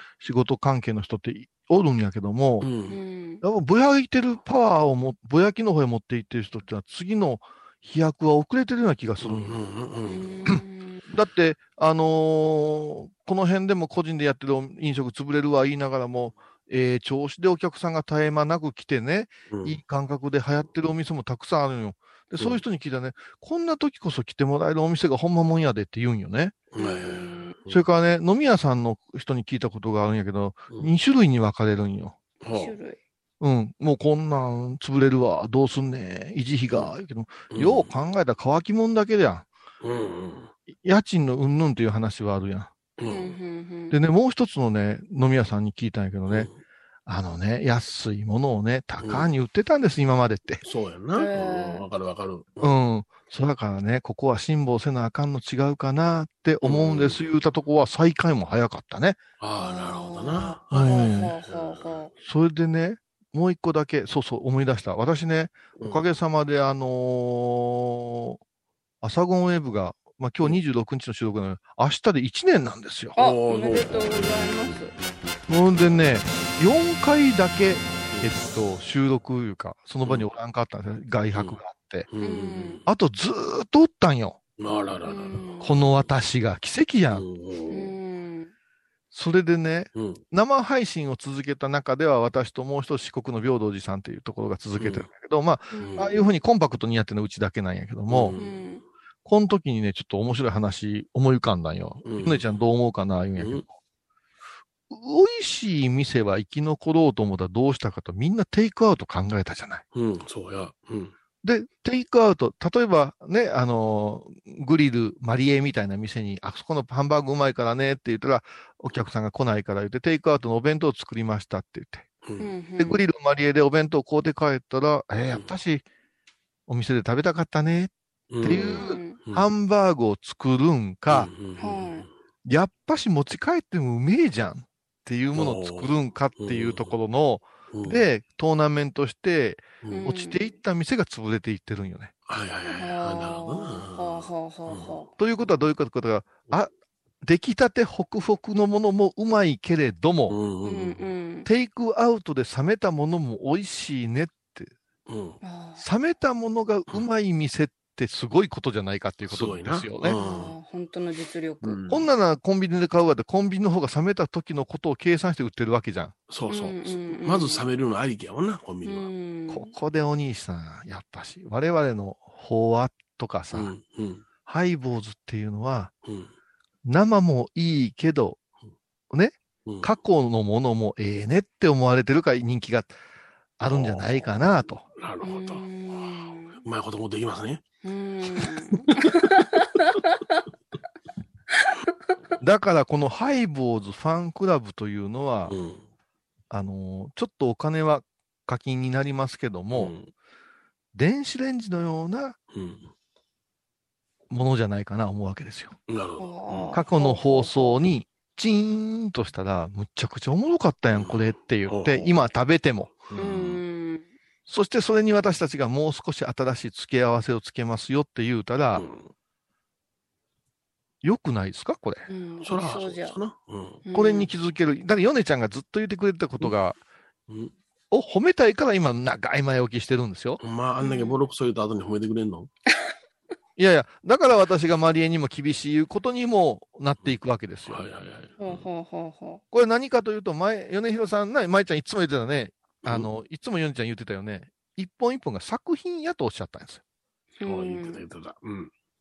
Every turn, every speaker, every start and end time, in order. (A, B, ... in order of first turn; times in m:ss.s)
0:00.2-0:02.7 A
0:02.6-0:03.0 B
0:02.9-0:03.4 C
0:03.4-0:09.6 A
0:09.2-0:10.5 B
0:10.1-0:11.0 C
0:10.6-0:26.6 A
0:19.5-0:19.8 B
0:26.7-0:27.8 B
0:26.8-0:27.5 C
0:27.7-0:32.2 A
0:32.4-0:32.8 B
0:32.5-0:33.0 C
0:33.4-0:39.5 A
0:37.5-0:37.9 B
0:39.8-0:40.5 B
0:40.8-0:42.7 A
0:43.0-0:43.4 B
0:43.1-0:44.0 C
0:43.9-0:46.5 A
0:46.3-0:46.6 B
0:47.1-0:50.6 A
0:49.0-0:49.3 B
0:50.6-0:52.7 B
0:51.2-0:51.8 C
0:52.6-0:59.2 A
0:56.6-0:57.2 B
0:59.4-1:02.0 B
0:59.6-1:02.1 C
1:00.7-1:01.3 A
1:02.2-1:08.4 A
1:05.8-1:06.0 B
1:09.0-1:13.2 A
1:13.2-1:14.7 B
1:13.2-1:14.9 C
1:15.5-1:22.1 A
1:18.1-1:18.3 B
1:22.1-1:22.8 B
1:22.2-1:22.8 C
1:22.9-1:24.4 A
1:24.6-1:25.5 B
1:25.1-1:25.7 C
1:25.6-1:27.2 A
1:27.1-1:28.0 B
1:27.7-1:28.5 C
1:29.1-1:38.4 A
1:30.0-1:30.2 B
1:34.8-1:35.1 B
1:35.8-1:36.1 C
1:35.8-1:36.1 B
1:38.1-1:38.6 B
1:38.4-1:38.8 C
1:39.2-1:43.7 A
1:42.0-1:42.5 B
1:43.4-1:43.6 B
1:44.9-1:49.8 A
1:49.9-1:51.1 B
1:51.4-2:02.1 A
2:02.2-2:02.5 B
2:02.4-2:03.0 C
2:02.8-2:05.8 A
2:06.7-2:11.3 A
2:08.3-2:09.5 B
2:08.5-2:09.2 C
2:11.1-2:12.1 B
2:11.6-2:12.0 C
2:12.4-2:22.1 A
2:15.4-2:16.9 B
2:17.7-2:18.0 B
2:19.9-2:20.4 C
2:22.3-2:25.1 B
2:22.7-2:25.1 C
2:25.2-2:26.7 A
2:27.2-2:30.4 A
2:30.3-2:31.1 B
2:30.7-2:31.5 C
2:31.4-2:34.7 A
2:35.1-2:35.4 B
2:35.4-2:35.8 C
2:35.8-2:40.2 A
2:39.3-2:40.6 B
2:40.1-2:41.8 C
2:41.6-2:42.0 B
2:41.9-2:46.1 A
2:46.3-2:49.1 B
2:46.5-2:47.7 C
2:48.8-2:49.7 C
2:49.5-2:53.7 A
2:53.5-2:54.2 B
2:54.5-2:55.9 A
2:56.0-2:56.3 B
2:56.9-2:58.4 A
2:59.1-3:02.9 A
2:59.7-2:59.9 B
3:03.6-3:04.8 A
3:03.6-3:07.6 B
3:05.2-3:06.6 C
3:07.8-3:10.4 C
3:08.3-3:09.1 B
3:12.4-3:15.6 A
3:15.5-3:15.8 B
3:16.5-3:19.9 A
3:19.7-3:20.1 B
3:20.9-3:22.4 A
3:22.5-3:22.9 B
3:24.3-3:25.8 A
3:25.9-3:26.8 B
3:26.2-3:27.8 C
3:26.7-3:33.1 A
3:30.9-3:32.1 B
3:33.1-3:33.6 B
3:33.2-3:34.0 C
3:34.5-3:38.9 A
3:38.8-3:39.1 B
3:41.0-3:42.1 A
3:42.1-3:43.2 C
3:42.4-3:43.8 B
3:43.9-3:44.3 C
3:43.9-3:46.8 A
3:47.9-3:50.4 A
3:50.4-3:52.5 B
3:50.8-3:51.2 C
3:53.6-3:57.9 A
3:57.7-3:58.6 B
3:58.4-3:59.4 C
3:59.5-4:06.8 A
4:02.8-4:03.1 B
4:07.4-4:08.0 C
4:07.5-4:08.7 B